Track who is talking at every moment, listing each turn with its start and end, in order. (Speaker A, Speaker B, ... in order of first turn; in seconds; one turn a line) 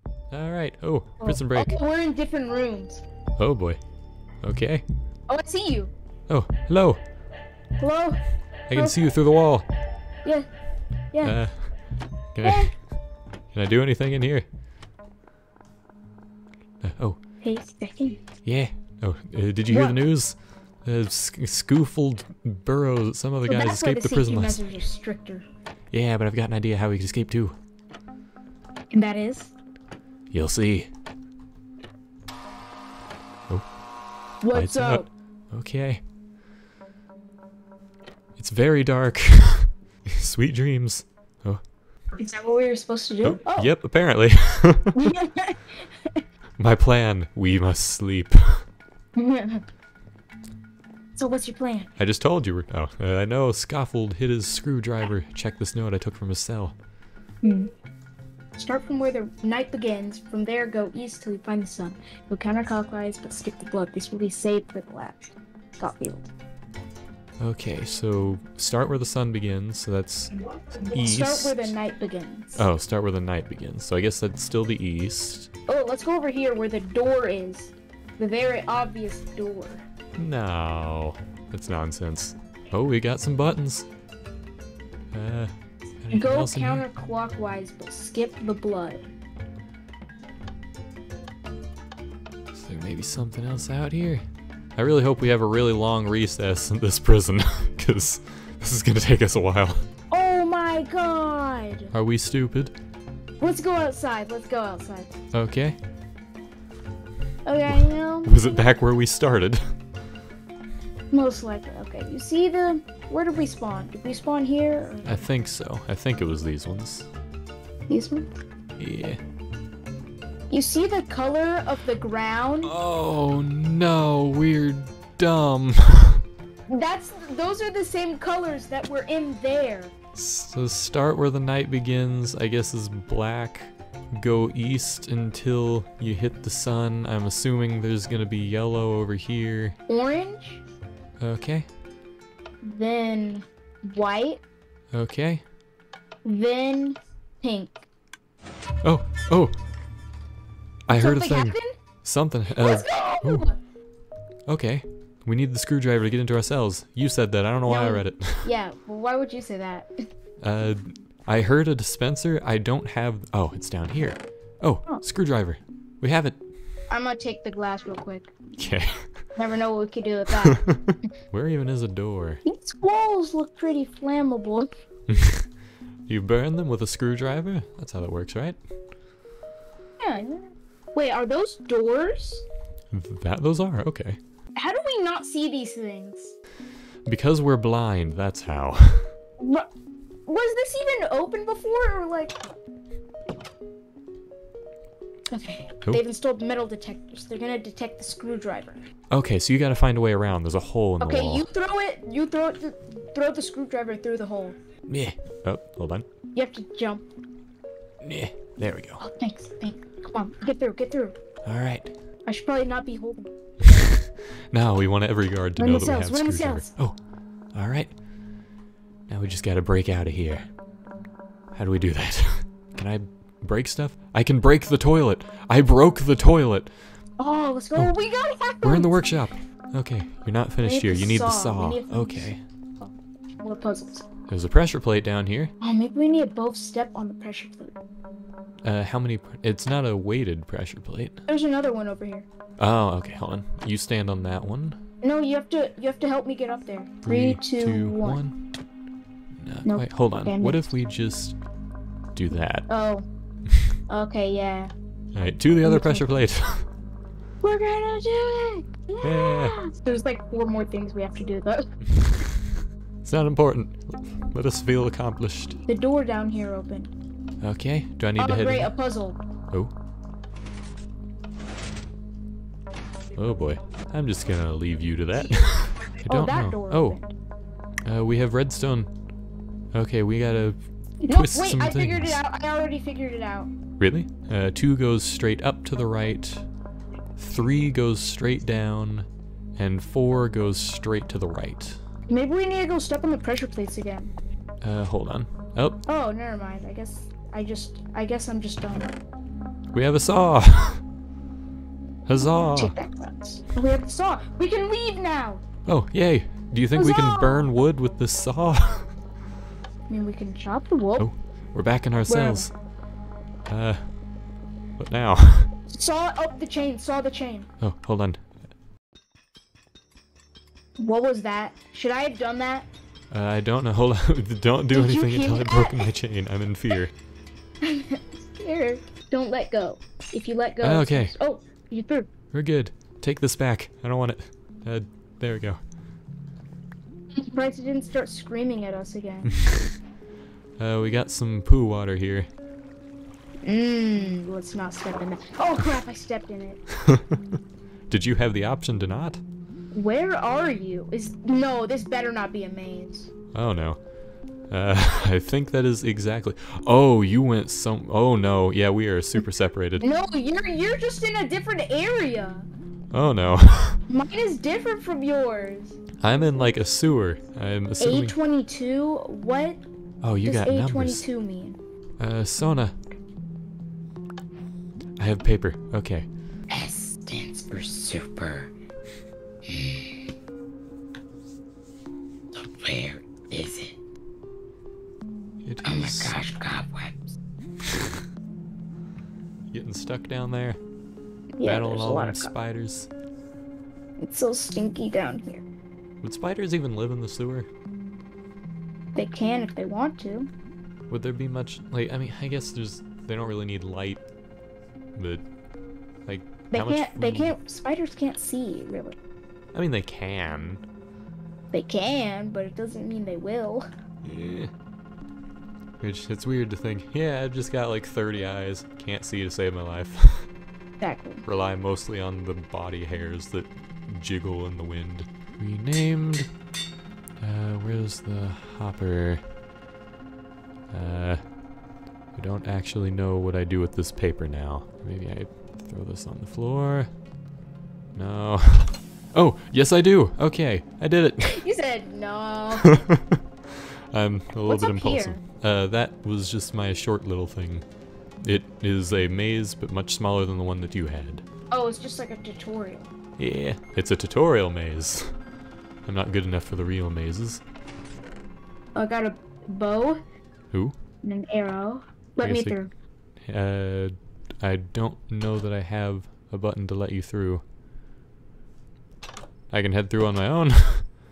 Speaker A: 0.3-1.8
Speaker B: 1.2-3.0
Speaker A: 3.4-3.8
Speaker A: 4.4-4.8
Speaker B: 5.3-5.9
Speaker A: 6.3-7.0
Speaker B: 7.8-8.2
Speaker A: 8.7-9.7
Speaker B: 8.7-9.0
Speaker B: 11.1-11.4
Speaker A: 11.2-11.7
Speaker A: 12.3-12.8
Speaker B: 12.4-12.7
Speaker A: 13.5-14.5
Speaker A: 16.8-17.2
Speaker B: 17.4-18.2
Speaker A: 18.4-24.6
Speaker B: 19.7-20.0
Speaker B: 23.5-25.5
Speaker A: 25.9-27.6
Speaker B: 28.9-29.5
Speaker A: 30.3-30.9
Speaker B: 34.4-35.1
Speaker A: 34.5-36.0
Speaker A: 38.4-41.6
Speaker B: 42.2-43.7
Speaker A: 43.2-45.1
Speaker B: 45.0-46.2
Speaker A: 46.6-48.6
Speaker B: 49.2-49.6
Speaker B: 51.2-51.9
Speaker A: 52.0-56.8
Speaker B: 57.4-57.7
Speaker B: 58.6-66.3
Speaker A: 67.4-71.7
Speaker B: 70.9-72.6
Speaker A: 72.5-75.5
Speaker B: 75.7-79.8
Speaker A: 80.2-83.9
Speaker A: 85.1-86.9
Speaker B: 86.1-89.0
Speaker A: 92.5-94.2
Speaker A: 94.8-99.8
Speaker B: 100.1-101.9
Speaker A: 101.9-102.8
Speaker B: 103.4-105.1
Speaker A: 105.3-105.8
Speaker B: 107.5-108.7
Speaker A: 107.7-109.6
Speaker B: 111.1-115.3
Speaker A: 115.0-117.1
Speaker B: 117.9-118.3
Speaker A: 118.8-119.2
Speaker B: 120.5-122.8
Speaker A: 122.6-126.2
Speaker B: 126.7-129.9
Speaker A: 130.2-139.8
Speaker B: 139.9-140.6
Speaker A: 141.2-141.7
Speaker B: 142.6-144.4
Speaker A: 144.9-145.4
Speaker B: 146.2-147.8
Speaker A: 148.8-149.5
Speaker A: 150.9-153.5
Speaker B: 150.9-151.8
Speaker B: 152.6-153.6
Speaker A: 154.5-158.5
Speaker B: 157.7-159.9
Speaker A: 160.4-166.4
Speaker B: 166.9-168.7
Speaker A: 168.6-169.0
Speaker B: 169.4-170.7
Speaker A: 170.4-172.4
Speaker B: 172.4-174.7
Speaker A: 175.1-175.5
Speaker A: 176.1-178.6
Speaker B: 180.0-182.4
Speaker A: 182.9-184.2
Speaker B: 184.6-186.3
Speaker A: 187.1-189.1
Speaker B: 189.4-189.7
Speaker B: 190.3-192.5
Speaker B: 195.3-198.9
Speaker A: 199.1-201.5
Speaker B: 201.0-204.6
Speaker A: 204.9-206.1
Speaker B: 206.3-207.1
Speaker A: 208.0-209.0
Speaker B: 209.0-211.2
Speaker A: 211.4-211.9
Speaker B: 212.3-213.3
Speaker A: 213.7-217.0
Speaker B: 215.6-216.7
Speaker A: 217.6-217.9
Speaker A: 219.1-220.5
Speaker A: 221.5-226.7
Speaker B: 227.2-229.0
Speaker A: 228.6-232.4
Speaker B: 230.6-234.1
Speaker A: 234.3-235.5
Speaker B: 235.6-237.8
Speaker A: 238.7-241.2
Speaker B: 241.3-242.3
Speaker A: 242.6-244.8
Speaker B: 245.0-248.2
Speaker A: 247.0-248.3
Speaker A: 249.4-251.4
Speaker B: 249.7-250.7
Speaker A: 252.2-252.7
Speaker B: 252.7-253.1
Speaker B: 253.9-254.7
Speaker A: 255.2-256.7
Speaker B: 255.6-256.1
Speaker B: 257.4-261.7
Speaker A: 259.0-259.6
Speaker A: 263.0-265.6
Speaker B: 265.7-266.9
Speaker A: 267.4-268.7
Speaker B: 268.2-269.2
Speaker A: 273.1-277.0
Speaker B: 276.1-277.1
Speaker A: 277.9-278.9
Speaker A: 279.7-280.6
Speaker B: 281.0-283.5
Speaker A: 281.1-282.2
Speaker A: 283.8-286.5
Speaker A: 287.2-291.8
Speaker B: 292.1-294.1
Speaker A: 294.6-295.8
Speaker B: 295.9-299.0
Speaker A: 299.7-300.8
Speaker A: 302.1-302.8
Speaker B: 302.6-305.4
Speaker A: 305.7-308.9
Speaker B: 306.8-307.5
Speaker B: 309.9-311.1
Speaker A: 311.0-312.5
Speaker B: 312.1-312.5
Speaker A: 313.5-313.9
Speaker A: 314.8-315.5
Speaker B: 315.7-317.5
Speaker A: 317.6-318.2
Speaker B: 320.8-322.7
Speaker A: 323.1-326.9
Speaker B: 324.7-325.9
Speaker B: 327.6-332.1
Speaker A: 330.6-331.1
Speaker A: 332.3-335.6
Speaker B: 337.2-339.4
Speaker A: 339.4-339.7
Speaker A: 340.6-342.3
Speaker B: 343.4-346.6
Speaker A: 346.8-347.4
Speaker A: 347.9-349.2
Speaker B: 349.7-353.1
Speaker A: 353.3-353.8
Speaker A: 354.5-359.9
Speaker B: 359.8-362.5
Speaker A: 362.9-363.8
Speaker B: 363.9-365.9
Speaker A: 366.0-368.1
Speaker B: 367.8-369.6
Speaker A: 370.0-371.0
Speaker B: 370.2-371.6
Speaker A: 372.0-372.8
Speaker A: 375.0-376.1
Speaker C: 376.5-378.5
Speaker C: 379.5-379.9
Speaker C: 382.4-383.7
Speaker A: 385.4-386.2
Speaker C: 385.6-386.9
Speaker A: 389.5-390.6
Speaker B: 391.4-392.3
Speaker A: 391.4-392.9
Speaker B: 394.0-395.4
Speaker A: 396.0-397.5
Speaker B: 399.0-400.3
Speaker A: 400.9-404.1
Speaker A: 405.0-405.2
Speaker A: 406.1-407.4
Speaker B: 406.5-409.0
Speaker A: 409.5-410.6
Speaker B: 411.5-413.7
Speaker A: 414.0-414.5
Speaker A: 415.8-420.3
Speaker B: 420.8-421.2
Speaker A: 421.2-426.3
Speaker A: 427.2-429.2
Speaker A: 430.7-431.2
Speaker A: 432.1-436.9
Speaker A: 437.9-441.4
Speaker B: 441.2-442.7
Speaker A: 442.6-447.6
Speaker B: 444.5-445.2
Speaker A: 448.2-451.2
Speaker B: 451.5-452.9
Speaker A: 453.2-455.1
Speaker A: 455.9-457.4
Speaker B: 458.8-460.0
Speaker B: 461.0-462.7
Speaker A: 462.2-462.6
Speaker A: 463.3-467.4
Speaker A: 469.5-470.9